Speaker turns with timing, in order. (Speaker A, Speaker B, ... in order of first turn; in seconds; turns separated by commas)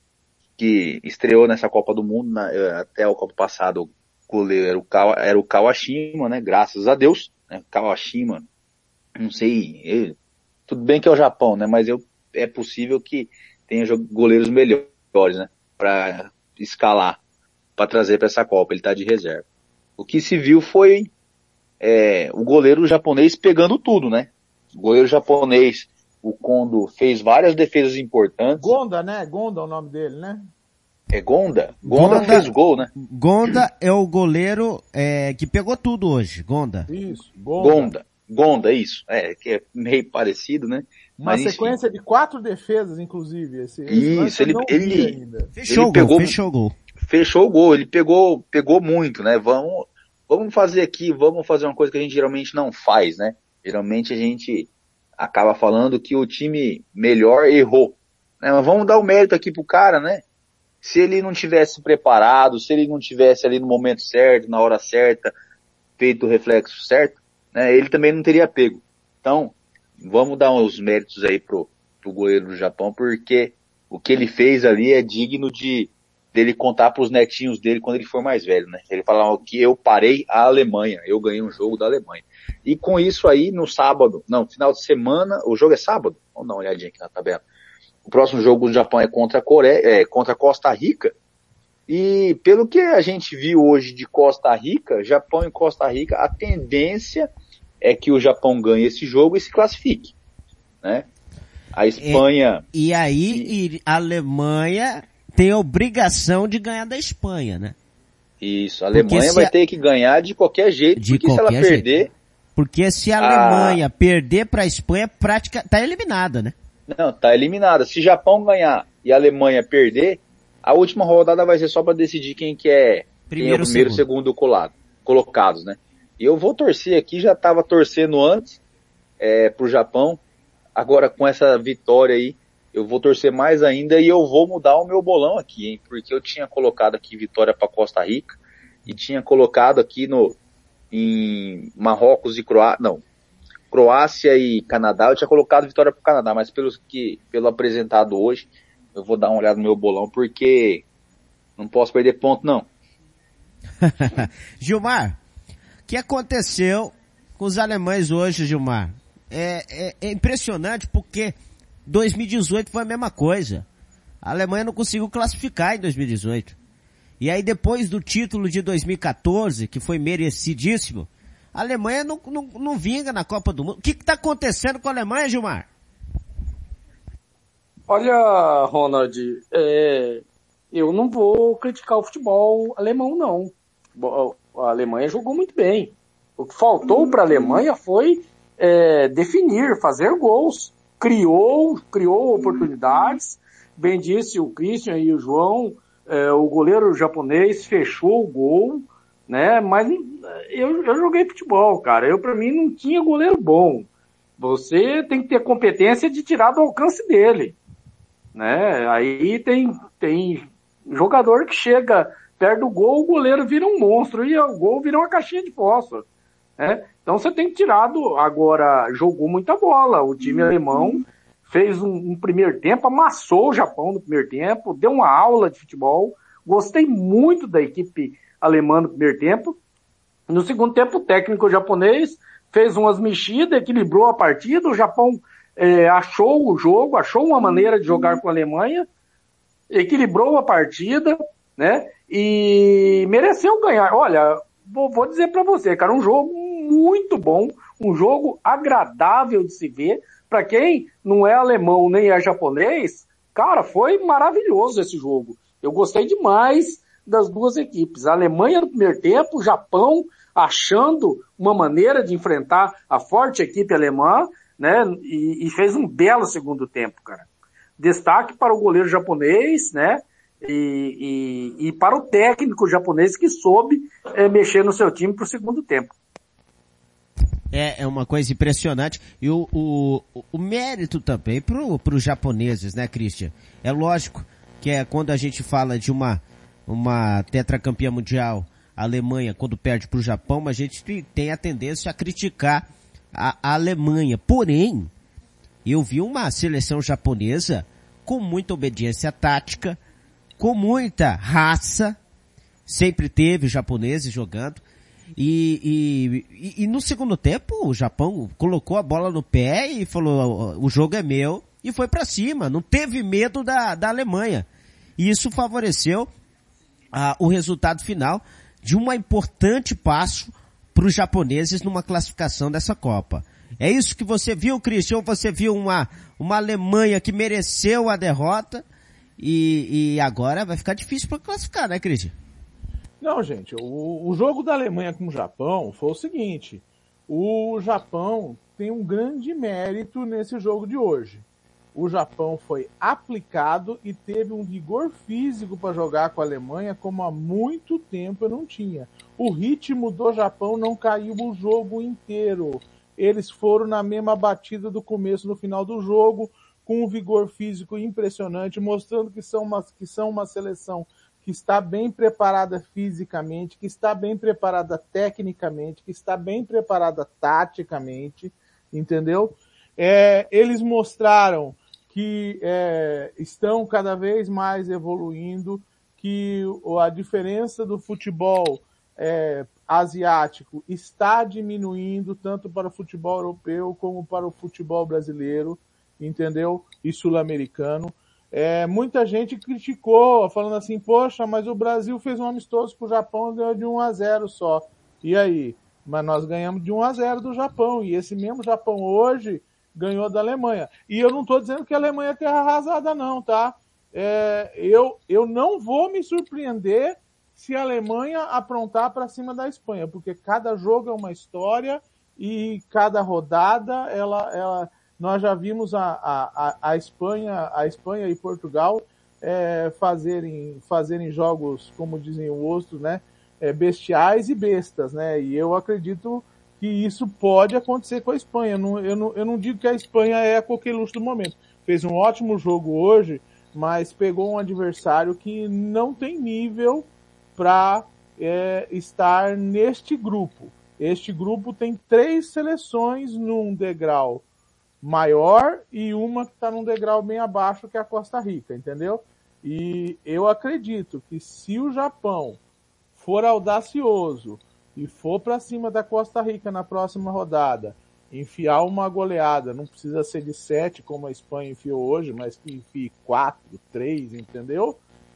Speaker A: 0.6-8.4, Speaker A: 9.2-10.2, Speaker A: 10.7-17.2, Speaker A: 17.8-19.4, Speaker A: 20.0-21.1, Speaker A: 21.8-28.7, Speaker B: 28.6-30.4, Speaker A: 31.1-32.9, Speaker B: 31.9-32.4, Speaker C: 31.9-36.9, Speaker B: 36.9-37.9, Speaker A: 37.6-41.8, Speaker B: 41.2-45.5, Speaker A: 43.9-46.4, Speaker C: 45.6-46.7, Speaker A: 47.0-60.2, Speaker A: 60.8-65.3, Speaker A: 66.0-87.4, Speaker A: 88.1-91.1, Speaker A: 91.9-97.3, Speaker A: 97.8-100.1, Speaker A: 101.7-102.6, Speaker C: 102.0-107.8, Speaker A: 108.4-112.1, Speaker C: 108.9-109.5, Speaker C: 111.0-111.9, Speaker C: 112.6-116.5, Speaker A: 113.2-113.8, Speaker A: 116.9-128.6, Speaker C: 123.3-124.0, Speaker A: 129.2-130.2, Speaker A: 130.8-140.4, Speaker A: 140.9-143.0, Speaker A: 143.7-150.8, Speaker A: 151.6-152.7, Speaker C: 153.8-155.2, Speaker C: 155.9-161.3, Speaker C: 161.9-163.7, Speaker C: 164.2-166.6, Speaker C: 167.2-175.7, Speaker D: 177.9-203.9, Speaker D: 204.4-207.6, Speaker D: 208.3-216.1, Speaker D: 216.6-229.6, Speaker D: 230.3-238.9, Speaker D: 239.7-267.3, Speaker D: 267.8-275.9, Speaker C: 277.5-294.9, Speaker C: 295.6-299.8, Speaker C: 300.4-302.0, Speaker C: 302.7-304.6, Speaker C: 305.2-314.5, Speaker C: 315.0-316.1, Speaker C: 316.9-328.6, Speaker C: 329.2-332.1, Speaker B: 333.0-444.2, Speaker B: 444.8-452.4, Speaker B: 452.9-464.8